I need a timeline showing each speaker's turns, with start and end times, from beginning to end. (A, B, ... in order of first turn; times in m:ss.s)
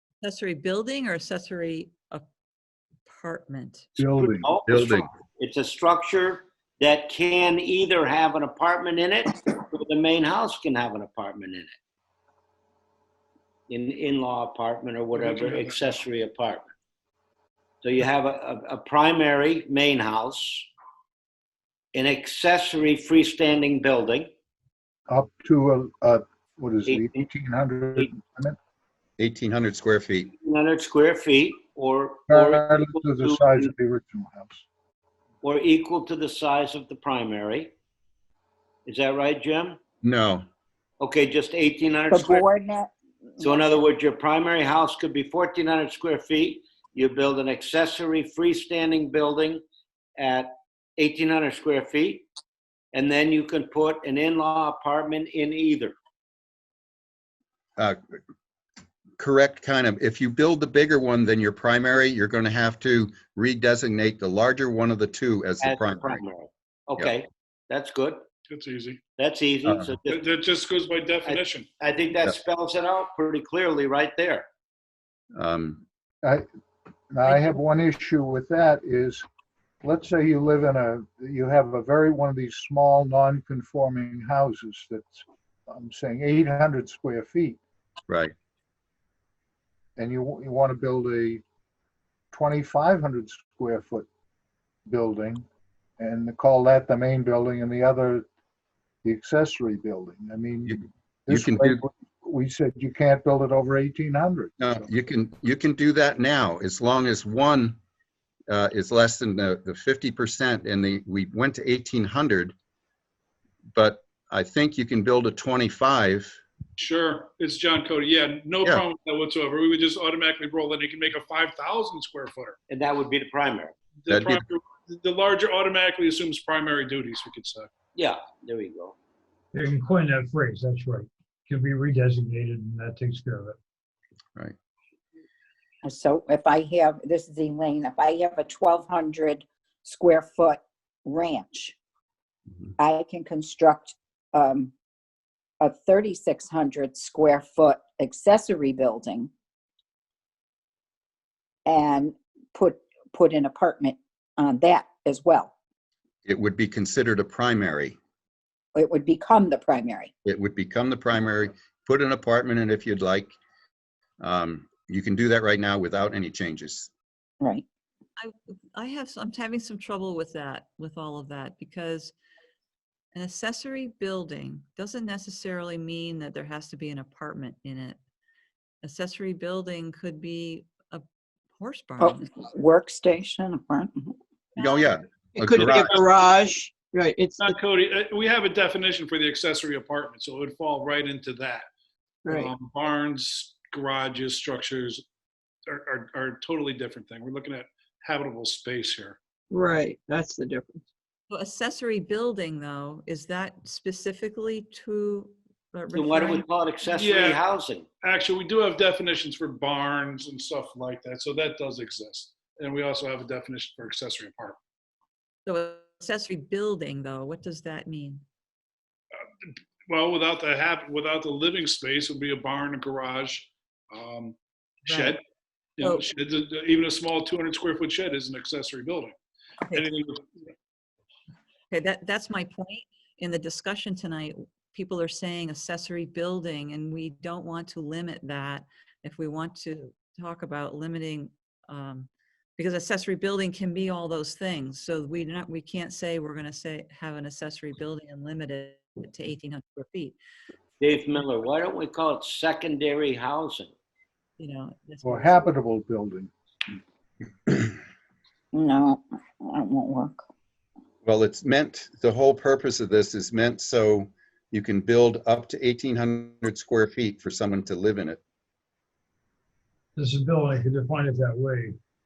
0:00.2-0:02.2 A
0:03.1-0:03.9 A
0:04.0-0:04.5 B
0:04.1-0:11.7 C
0:04.7-0:05.1 D
0:13.7-0:16.7 C
0:15.1-0:16.0 E
0:17.8-0:20.7 C
0:21.9-0:24.3 C
0:25.1-0:28.6 B
0:26.9-0:27.3 C
0:29.2-0:30.3 D
0:30.4-0:33.7 C
0:32.3-0:34.6 B
0:35.4-0:37.7 C
0:38.9-0:39.8 C
0:40.0-0:40.4 D
0:41.0-0:42.5 C
0:42.1-0:43.8 F
0:43.4-0:49.6 C
0:50.2-0:52.3 C
0:52.9-0:56.0 C
0:59.2-1:06.2 D
1:05.6-1:08.2 C
1:08.5-1:09.0 E
1:09.2-1:10.2 C
1:10.0-1:11.7 E
1:11.2-1:14.5 C
1:15.4-1:15.8 D
1:17.1-1:19.2 B
1:17.3-1:17.6 A
1:19.8-1:27.6 B
1:28.1-1:28.3 D
1:30.0-1:31.4 B
1:32.3-1:34.1 B
1:34.9-1:35.4 B
1:36.0-1:38.3 B
1:39.0-1:44.8 B
1:40.7-1:41.8 D
1:44.6-1:47.8 D
1:48.5-1:52.5 D
1:53.8-1:56.4 D
1:56.8-2:02.6 E
2:02.7-2:03.7 C
2:04.0-2:07.7 E
2:04.1-2:04.4 D
2:08.0-2:09.0 C
2:09.5-2:13.6 G
2:15.8-2:21.8 F
2:22.8-2:24.7 F
2:25.6-2:29.3 F
2:31.7-2:35.5 F
2:36.3-2:38.0 D
2:38.8-2:40.1 F
2:40.2-2:43.3 D
2:44.2-2:46.9 D
2:48.2-2:52.1 A
2:53.1-2:58.0 A
2:58.8-3:01.0 A
3:01.6-3:02.2 A
3:02.0-3:04.1 F
3:04.6-3:04.9 A
3:04.6-3:06.0 D
3:05.4-3:07.6 H
3:07.4-3:11.7 E
3:12.2-3:12.5 H
3:12.4-3:15.0 E
3:15.7-3:19.2 E
3:19.5-3:20.8 H
3:21.3-3:26.5 A
3:26.0-3:27.9 C
3:27.0-3:34.6 E
3:35.5-3:38.2 A
3:39.4-3:45.2 E
3:44.9-3:45.2 A
3:45.8-3:49.2 E
3:49.7-3:50.3 E
3:51.7-4:10.2 A
4:10.8-4:13.7 C
4:14.4-4:15.5 A
4:15.0-4:16.3 B
4:18.5-4:20.2 F
4:21.0-4:28.2 D
4:30.0-4:31.8 G